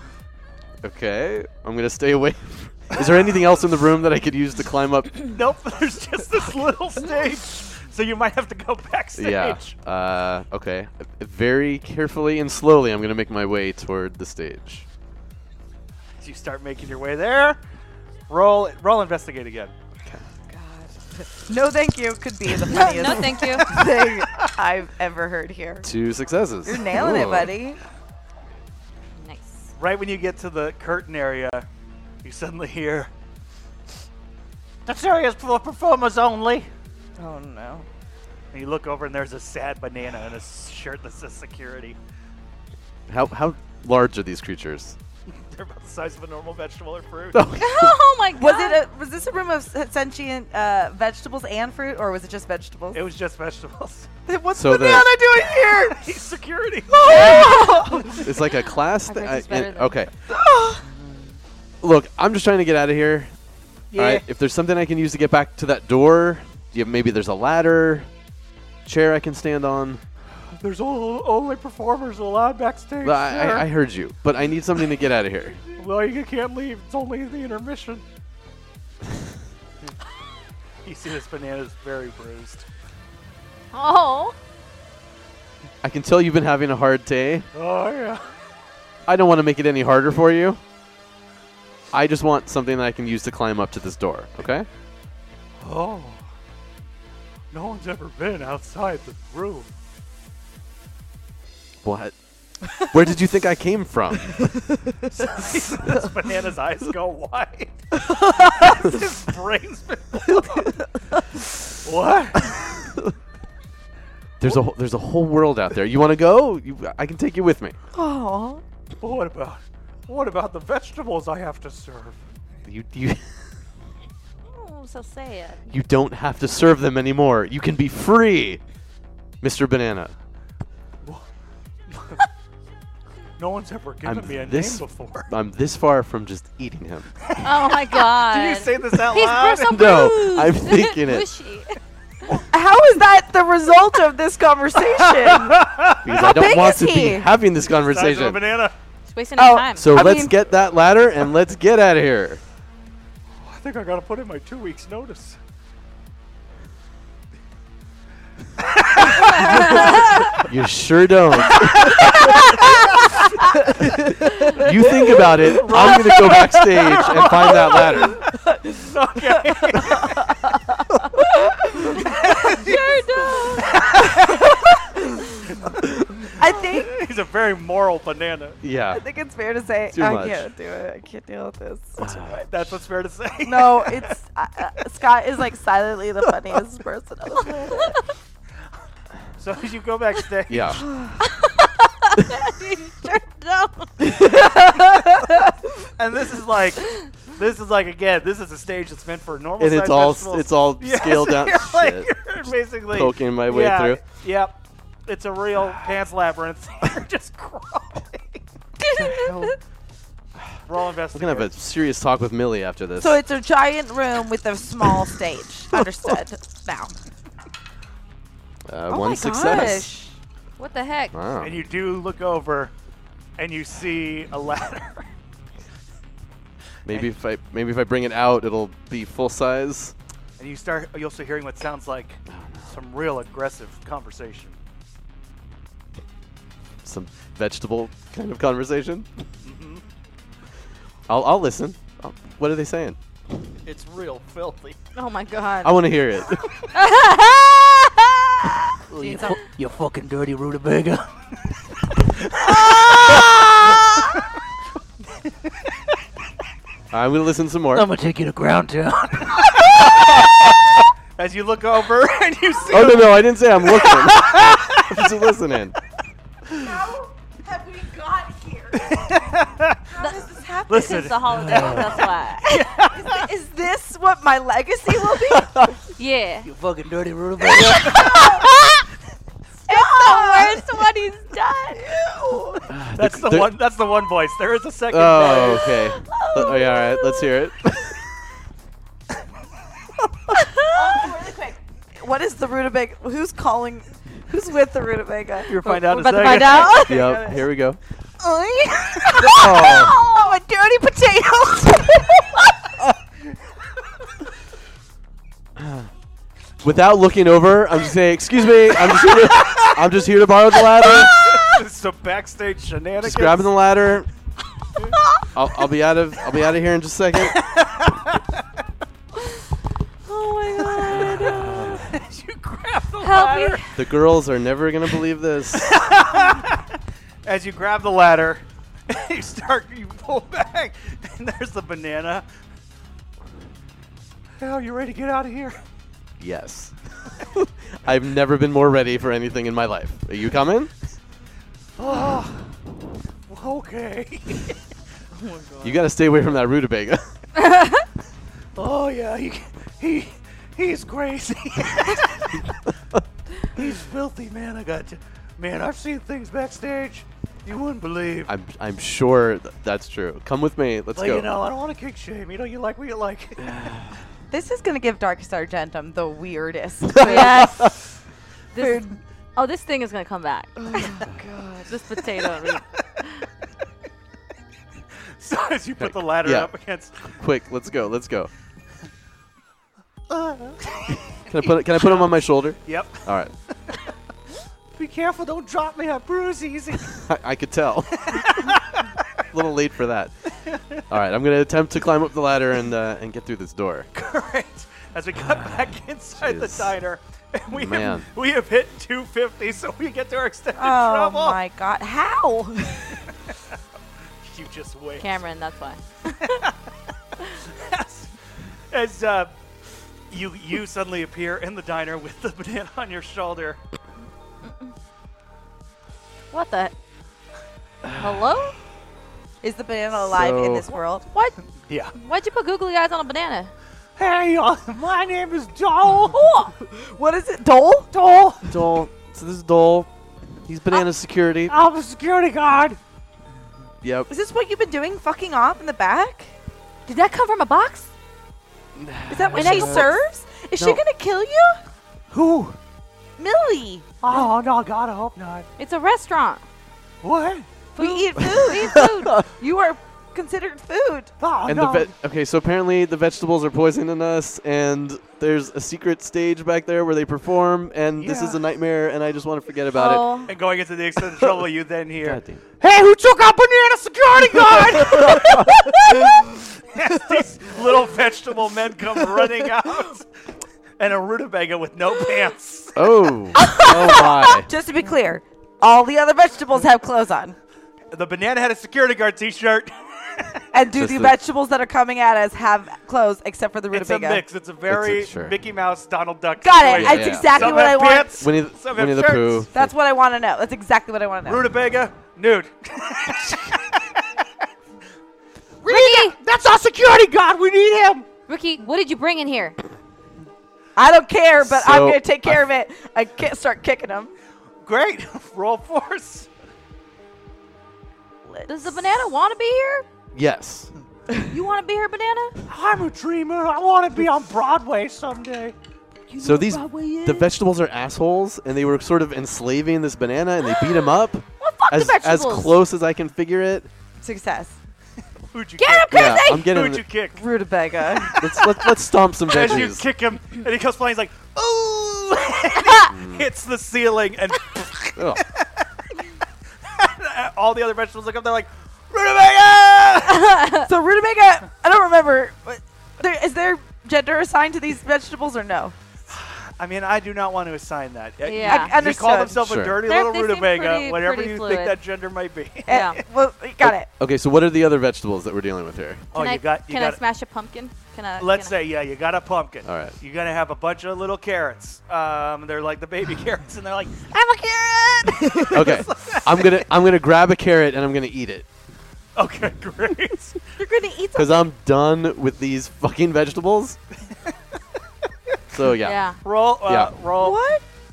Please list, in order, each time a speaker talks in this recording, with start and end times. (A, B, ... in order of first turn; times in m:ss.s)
0:00.8-0:05.2 A
0:05.3-0:09.7 B
0:09.1-0:14.8 A
0:16.2-0:17.6 B
0:18.3-0:19.7 B
0:20.5-0:25.9 C
0:22.7-0:23.8 D
0:23.8-0:24.2 B
0:25.8-0:27.5 A
0:26.6-0:27.8 C
0:29.2-0:29.6 D
0:29.8-0:31.6 B
0:32.2-0:33.1 B
0:34.8-0:36.7 B
0:37.2-0:37.8 C
0:38.5-0:42.0 B
0:43.1-0:45.0 A
0:45.3-0:47.4 B
0:47.3-0:48.0 A
0:47.6-0:48.8 D
0:48.4-0:53.0 C
0:52.9-0:54.1 B
0:54.3-0:56.1 C
0:54.5-0:55.1 A
0:55.4-0:57.6 B
0:56.9-0:58.3 C
0:57.2-0:58.0 D
0:58.2-1:00.1 A
0:59.0-1:00.0 D
1:00.3-1:00.8 C
1:00.9-1:01.3 B
1:01.8-1:03.3 A
1:03.9-1:04.2 B
1:03.9-1:08.1 A
1:08.8-1:10.0 A
1:10.6-1:13.7 B
1:13.0-1:15.6 A
1:15.7-1:18.0 B
1:20.8-1:22.6 B
1:23.7-1:24.3 D
1:25.8-1:27.5 A
1:27.5-1:28.2 B
1:29.1-1:30.6 A
1:31.9-1:34.7 A
1:35.6-1:36.2 B
1:37.5-1:39.7 B
1:41.8-1:42.1 A
1:42.7-1:44.6 A
1:45.1-1:50.8 B
1:48.2-1:48.5 C
1:51.7-1:52.8 B
1:54.4-1:57.8 A
1:57.9-1:58.6 C
1:59.0-2:02.2 B
2:02.6-2:03.4 A
2:04.5-2:05.6 D
2:05.7-2:08.6 A
2:09.4-2:10.1 A
2:11.9-2:12.2 B
2:13.4-2:15.3 B
2:14.0-2:17.1 A
2:17.2-2:19.9 B
2:17.4-2:21.8 D
2:19.6-2:21.3 A
2:22.5-2:27.3 C
2:24.9-2:26.3 B
2:26.0-2:28.4 A
2:27.6-2:28.7 B
2:29.1-2:30.0 D
2:29.4-2:30.4 C
2:29.8-2:32.4 A
2:33.4-2:35.4 B
2:38.8-2:39.8 B
2:39.4-2:40.0 D
2:40.4-2:42.6 A
2:41.9-2:42.7 C
2:43.6-2:43.9 C
2:43.8-2:48.2 A
2:44.6-2:48.1 B
2:45.2-2:46.0 C
2:48.4-2:50.6 C
2:48.8-2:50.3 B
2:51.1-2:52.1 C
2:52.0-2:54.6 B
2:52.4-2:53.9 D
2:56.4-2:56.9 C
2:56.4-2:58.6 B
2:58.6-2:59.0 A
2:58.9-3:02.4 C
2:59.9-3:00.5 A
3:02.0-3:02.4 A
3:02.3-3:04.1 B
3:03.4-3:08.0 C
3:09.4-3:10.8 B
3:10.5-3:10.8 A
3:10.8-3:11.2 C
3:11.4-3:13.9 D
3:14.0-3:15.5 C
3:16.0-3:24.6 B
3:19.6-3:22.1 A
3:22.9-3:24.0 A
3:25.1-3:28.4 B
3:28.8-3:29.5 D
3:29.0-3:29.4 C
3:29.0-3:29.5 A
3:30.7-3:31.6 B
3:31.1-3:33.2 A
3:33.0-3:36.9 C
3:38.7-3:39.9 A
3:38.9-3:40.1 C
3:40.6-3:41.1 D
3:41.1-3:41.6 A
3:41.4-3:42.7 B
3:43.4-3:45.1 B
3:46.8-3:49.9 A
3:50.4-3:54.6 B
3:52.3-3:52.7 A
3:56.8-3:59.1 A
3:59.4-3:59.8 B
4:01.1-4:03.0 A
4:03.6-4:04.8 B
4:04.9-4:05.9 D
4:05.6-4:06.5 A
4:06.7-4:08.0 D
4:08.9-4:14.2 B
4:09.0-4:09.4 D
4:16.9-4:17.9 A
4:17.7-4:25.2 B
4:22.7-4:25.8 A
4:26.5-4:29.4 C
4:28.7-4:29.8 B
4:29.9-4:35.7 C
4:30.0-4:32.6 D
4:30.7-4:33.3 B
4:35.3-4:35.7 A
4:36.0-4:36.5 D
4:36.4-4:38.6 B
4:37.5-4:38.6 C
4:39.7-4:40.8 C
4:39.7-4:41.8 D
4:41.8-4:42.6 C
4:42.1-4:45.7 B
4:42.7-4:43.6 A
4:44.9-4:48.0 A
4:46.0-4:47.3 C
4:50.3-4:50.8 D
4:50.7-4:57.4 C
4:55.5-4:56.9 B
4:55.6-4:56.8 D
4:56.5-4:57.8 A
4:58.2-4:59.6 B
4:58.4-5:02.7 C
4:59.2-5:00.0 A
5:05.6-5:05.9 A
5:06.6-5:11.2 A
5:08.8-5:09.7 B
5:10.8-5:11.5 C
5:10.8-5:13.5 B
5:13.0-5:14.1 A
5:15.3-5:17.4 A
5:17.2-5:18.3 B
5:20.0-5:21.8 D
5:20.6-5:23.6 B
5:21.2-5:21.9 A
5:23.0-5:23.7 D
5:23.7-5:25.7 A
5:25.5-5:26.7 B
5:27.2-5:32.2 B
5:34.4-5:35.6 B
5:36.2-5:40.7 A
5:41.8-5:42.4 B
5:43.3-5:44.6 B
5:45.6-5:47.0 A
5:47.4-5:47.8 D
5:48.6-5:52.5 B
5:53.5-5:58.3 B
5:58.3-6:01.3 A
6:00.9-6:03.7 B
6:03.4-6:03.9 A
6:04.3-6:07.7 C
6:06.9-6:07.7 A
6:07.0-6:07.7 D
6:08.5-6:11.1 D
6:08.6-6:08.9 C
6:10.6-6:11.7 C
6:11.6-6:13.2 D
6:15.2-6:16.9 B
6:15.8-6:16.5 A
6:17.1-6:18.3 A
6:20.1-6:23.0 B
6:21.3-6:23.3 A
6:24.8-6:27.0 B
6:26.9-6:28.6 A
6:28.0-6:28.9 B
6:29.3-6:30.1 A
6:30.4-6:30.8 B
6:30.9-6:33.9 A
6:33.9-6:41.4 B
6:36.2-6:36.7 A
6:37.5-6:38.1 A
6:40.6-6:43.0 C
6:44.2-6:45.1 B
6:45.0-6:46.4 D
6:46.2-6:46.5 B
6:47.4-6:48.1 B
6:48.7-6:49.3 B
6:50.1-6:53.6 B
6:56.3-6:56.7 D
6:57.8-6:58.2 A
6:58.0-6:58.5 D
6:59.4-7:01.1 C
6:59.9-7:00.8 A
7:01.1-7:01.4 D
7:01.7-7:01.9 B
7:01.9-7:03.5 D
7:04.0-7:06.2 B
7:06.1-7:06.5 D
7:06.4-7:07.9 C
7:07.9-7:08.5 B
7:08.5-7:09.9 A
7:10.4-7:11.6 A
7:11.5-7:12.8 B
7:13.8-7:14.1 A
7:14.1-7:16.3 C
7:16.9-7:17.9 D
7:18.8-7:19.9 A
7:19.1-7:21.6 C
7:19.3-7:19.9 D
7:20.6-7:20.8 A
7:22.1-7:22.6 B
7:23.2-7:23.9 C
7:24.0-7:25.5 B
7:25.6-7:26.4 D
7:27.0-7:27.5 B
7:27.8-7:29.1 D
7:27.8-7:31.1 C
7:28.2-7:29.2 A
7:31.2-7:31.9 B
7:31.4-7:40.2 A
7:38.0-7:38.4 B
7:39.7-7:40.3 D
7:40.3-7:50.0 B
7:42.0-7:42.4 A
7:44.6-7:45.6 A
7:50.8-7:52.8 B
7:52.7-7:54.5 A
7:53.4-7:57.4 C
7:57.9-8:00.4 B
8:00.5-8:04.2 C
8:00.7-8:01.2 A
8:03.7-8:09.5 B
8:04.7-8:05.4 A
8:06.4-8:08.2 C
8:06.6-8:09.7 A
8:09.5-8:11.5 C
8:11.2-8:14.2 B
8:15.6-8:18.0 B
8:15.6-8:16.2 D
8:18.3-8:19.6 D
8:20.8-8:24.1 C
8:21.4-8:22.4 A
8:24.6-8:26.3 B
8:28.2-8:28.8 C
8:28.5-8:29.8 D
8:30.1-8:30.7 A
8:31.3-8:32.3 D
8:32.5-8:35.5 B
8:36.1-8:37.3 C
8:36.2-8:43.7 A
8:41.4-8:42.6 D
8:44.0-8:44.6 C
8:45.3-8:47.3 B
8:45.6-8:46.5 D
8:45.9-8:46.9 A
8:47.1-8:48.4 C
8:48.1-8:49.8 A
8:49.3-8:55.7 B
8:52.8-8:53.2 A
8:55.0-8:55.2 A
8:56.6-9:00.3 B
9:00.1-9:00.7 D
9:00.6-9:05.7 C
9:06.1-9:12.8 B
9:08.2-9:08.7 D
9:08.3-9:09.4 C
9:09.4-9:09.8 A
9:09.8-9:11.8 D
9:12.7-9:13.0 D
9:12.7-9:13.9 C
9:13.6-9:16.0 A
9:16.1-9:17.0 B
9:16.1-9:18.5 D
9:18.2-9:26.5 B
9:19.6-9:20.0 A
9:24.1-9:25.6 C
9:25.5-9:28.4 A
9:29.2-9:30.4 B
9:30.6-9:31.5 C
9:31.1-9:33.8 A
9:35.5-9:36.0 A
9:35.8-9:36.2 D
9:36.2-9:37.4 B
9:36.6-9:36.9 A
9:37.2-9:37.6 C